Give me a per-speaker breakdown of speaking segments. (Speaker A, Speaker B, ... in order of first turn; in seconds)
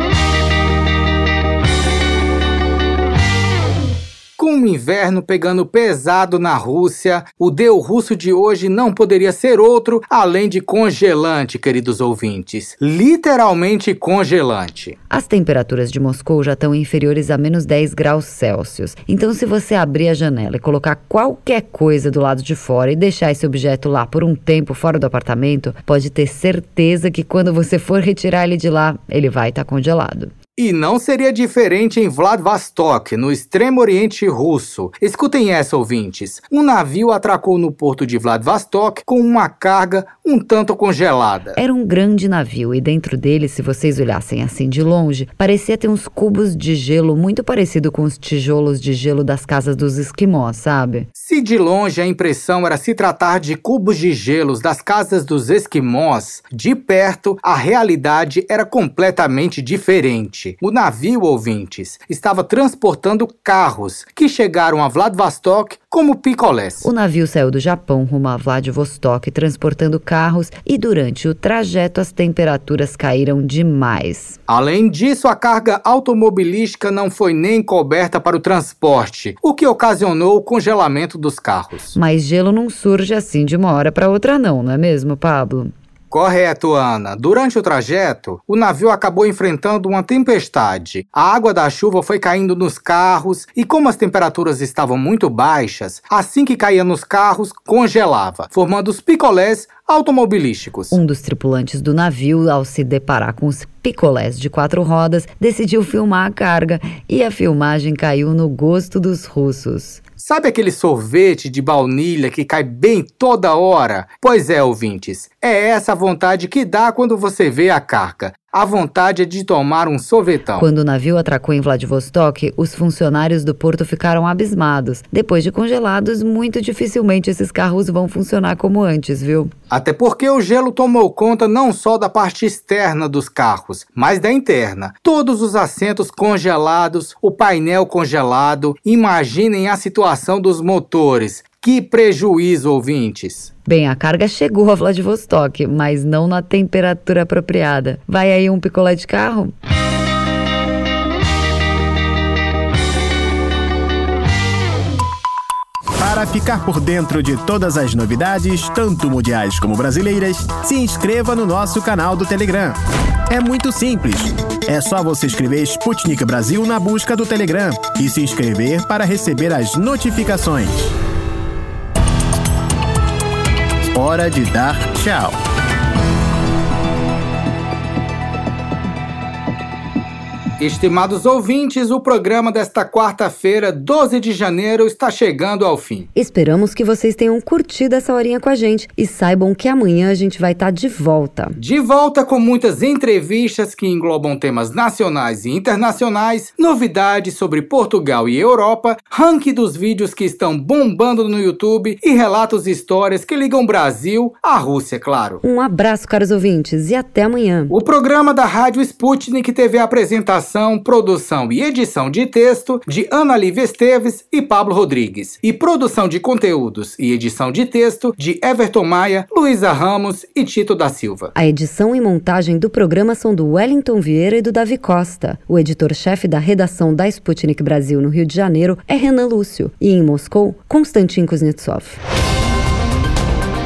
Speaker A: 4.4-14.9, 30.6-41.6, 51.2-66.8, 74.5-81.9, 86.1-101.0, 110.2-120.7, 129.7-143.5, 180.6-186.1, 191.6-205.4, 207.7-221.3
Speaker B: 15.1-30.3, 41.6-51.1, 66.8-74.4, 81.9-85.7, 100.9-110.0, 120.6-129.5, 143.7-149.5, 186.1-191.6, 205.4-207.7, 221.3-232.0
Speaker C: 156.0-170.9, 173.9-175.4